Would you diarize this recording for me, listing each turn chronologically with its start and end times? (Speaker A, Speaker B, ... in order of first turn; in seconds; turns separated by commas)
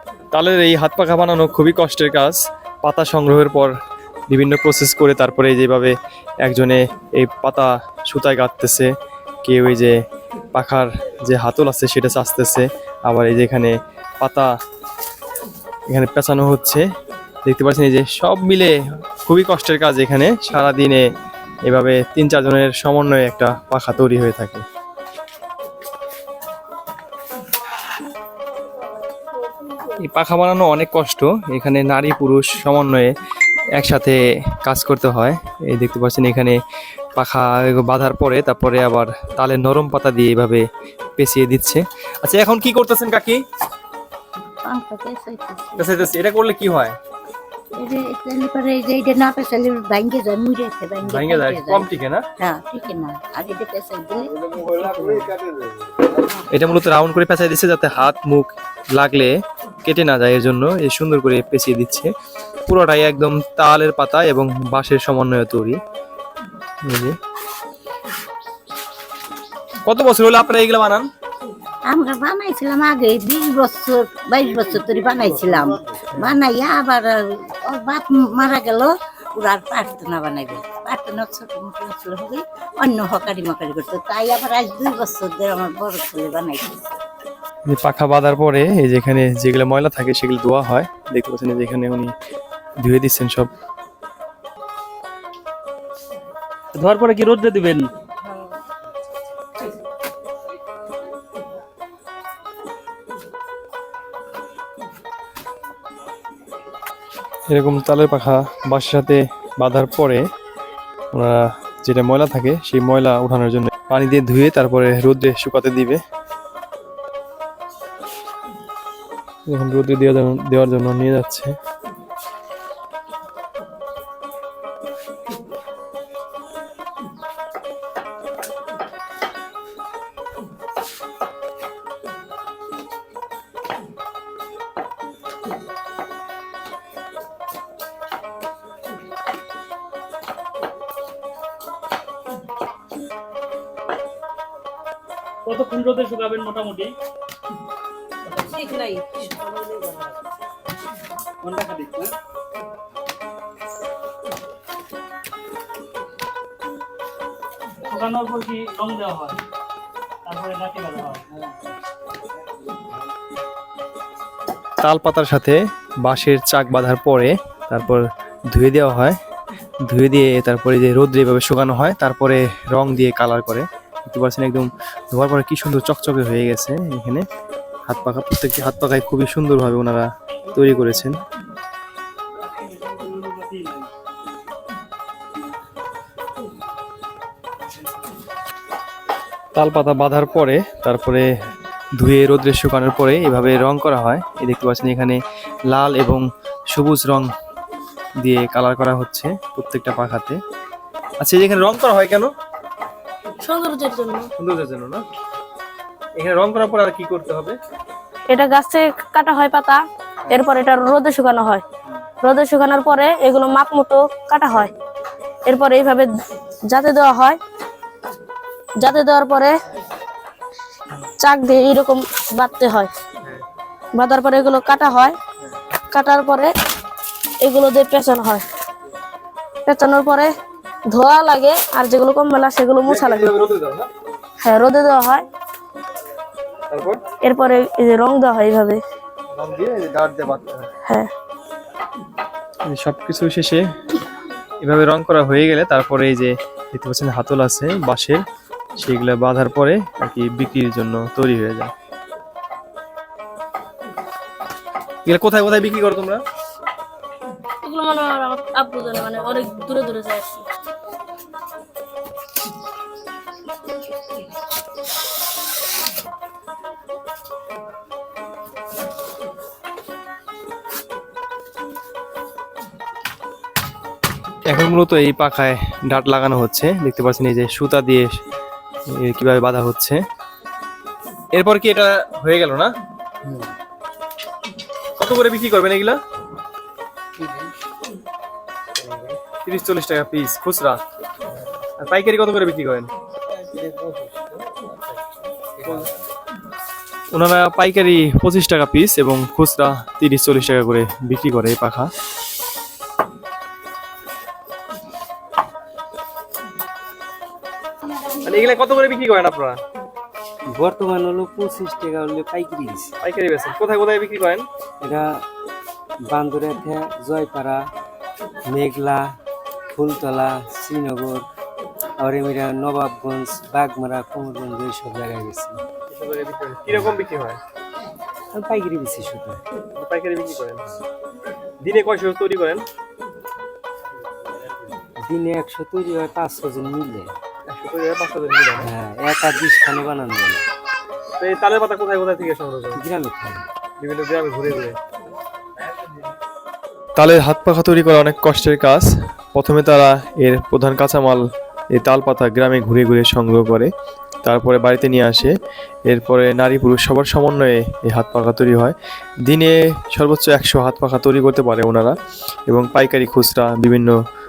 Speaker A: 0.3-3.7, Speaker A: 4.3-5.9, Speaker A: 6.4-8.9, Speaker A: 9.4-9.9, Speaker A: 10.5-14.5, Speaker A: 15.9-16.8, Speaker A: 17.4-21.0, Speaker A: 21.7-24.6, Speaker A: 29.8-33.1, Speaker A: 33.8-36.6, Speaker A: 37.2-40.6, Speaker A: 41.2-43.4, Speaker B: 44.6-45.9, Speaker A: 45.8-47.0, Speaker B: 47.8-51.9, Speaker A: 51.1-52.3, Speaker B: 52.4-55.4, Speaker A: 56.5-59.3, Speaker A: 59.9-62.1, Speaker A: 62.7-65.8, Speaker A: 66.8-67.2, Speaker A: 69.8-71.1, Speaker B: 71.9-87.0, Speaker A: 87.7-92.1, Speaker A: 92.8-93.5, Speaker C: 96.8-97.9, Speaker A: 107.5-110.2, Speaker A: 111.1-116.0, Speaker A: 119.5-121.6, Speaker C: 145.5-146.9, Speaker C: 148.4-149.7, Speaker C: 151.5-152.0, Speaker C: 157.9-159.4, Speaker C: 160.3-161.2, Speaker A: 164.8-169.2, Speaker A: 169.8-177.3, Speaker A: 177.9-181.2, Speaker C: 182.7-183.8, Speaker A: 189.5-191.3, Speaker A: 192.0-197.3, Speaker A: 198.2-200.4, Speaker A: 201.2-202.3, Speaker D: 203.4-204.3, Speaker A: 204.4-205.0, Speaker A: 206.2-207.6, Speaker D: 208.3-211.6, Speaker D: 212.2-214.7, Speaker D: 215.5-216.1, Speaker D: 216.7-217.4, Speaker D: 218.8-219.5, Speaker D: 221.2-222.9, Speaker D: 224.0-225.2, Speaker D: 225.9-226.5, Speaker D: 227.4-228.4, Speaker D: 229.7-230.3, Speaker D: 230.9-233.4, Speaker A: 232.8-233.9, Speaker D: 234.4-235.2, Speaker A: 236.7-237.0, Speaker D: 237.2-238.8, Speaker A: 239.3-240.7, Speaker A: 242.7-243.6, Speaker A: 244.6-248.2, Speaker A: 248.8-251.7, Speaker A: 255.1-256.2, Speaker D: 257.6-260.4, Speaker A: 274.5-278.2, Speaker A: 278.9-280.0, Speaker A: 281.3-282.7, Speaker A: 285.0-286.0, Speaker A: 289.0-290.8, Speaker A: 291.8-292.9, Speaker A: 297.1-301.9, Speaker A: 308.2-309.6, Speaker E: 310.5-312.9, Speaker A: 313.0-314.5, Speaker E: 314.8-315.1, Speaker E: 316.1-317.6, Speaker E: 318.5-319.1, Speaker E: 319.7-321.3, Speaker E: 322.0-325.6, Speaker A: 325.9-327.4, Speaker E: 328.3-329.4, Speaker A: 329.8-330.7, Speaker A: 331.6-332.7, Speaker E: 335.1-337.1, Speaker A: 337.5-338.7, Speaker E: 338.6-340.5, Speaker A: 341.2-342.9, Speaker E: 342.8-343.4, Speaker A: 343.8-344.8, Speaker A: 347.0-353.7, Speaker A: 354.2-355.3, Speaker A: 355.9-361.9, Speaker A: 362.5-363.9